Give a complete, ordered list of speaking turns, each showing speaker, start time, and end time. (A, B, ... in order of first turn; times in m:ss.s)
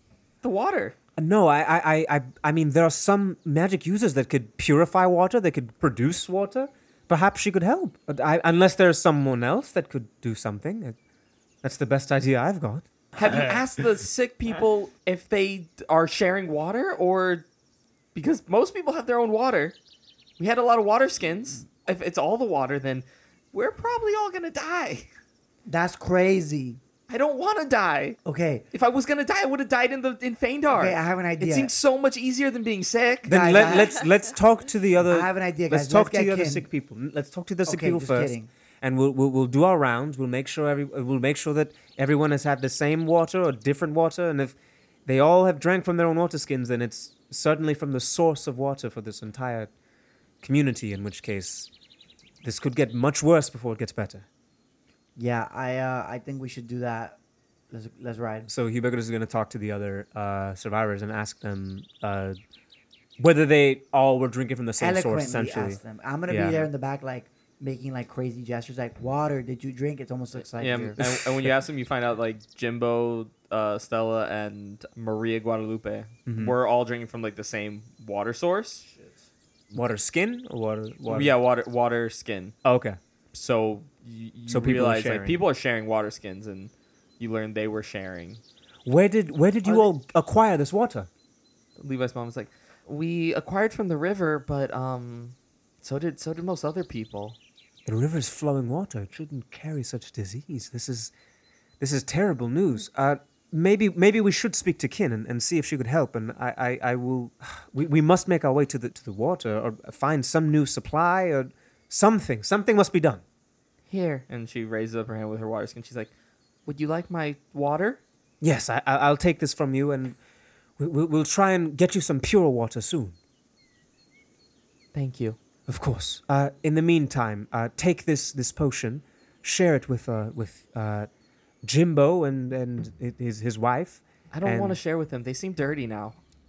0:00.4-0:00.9 A
0:01.2-0:11.0 B
0:11.6-0:12.9 B
0:13.1-0:17.4 A
0:18.1-0:19.8 A
0:20.4-0:25.1 A
0:25.6-0:26.8 C
0:27.1-0:28.2 A
0:28.2-0:28.6 C
0:28.7-0:33.6 A
0:30.7-0:31.7 C
0:33.2-0:34.0 C
0:33.2-0:49.7 B
0:35.0-0:36.6 C
0:37.6-0:38.5 C
0:50.4-0:51.7 B
0:52.4-0:54.2 B
0:55.2-0:57.2 C
0:57.7-0:58.5 C
0:58.5-1:02.4 B
1:03.2-1:06.7 B
1:04.8-1:11.0 C
1:10.6-1:18.9 A
1:11.0-1:11.3 B
1:16.2-1:16.5 B
1:19.7-1:21.4 B
1:21.1-1:22.5 A
1:22.6-1:23.0 B
1:23.3-1:28.4 A
1:24.5-1:25.4 B
1:28.8-1:31.1 B
1:29.6-1:29.9 A
1:31.8-1:37.4 A
1:37.8-1:41.1 B
1:41.8-1:53.2 B
1:53.9-1:56.1 A
1:56.6-1:58.0 A
1:58.4-2:00.2 B
2:00.8-2:03.2 B
2:04.9-2:05.4 A
2:05.7-2:11.1 B
2:11.6-2:14.8 B
2:14.3-2:16.2 A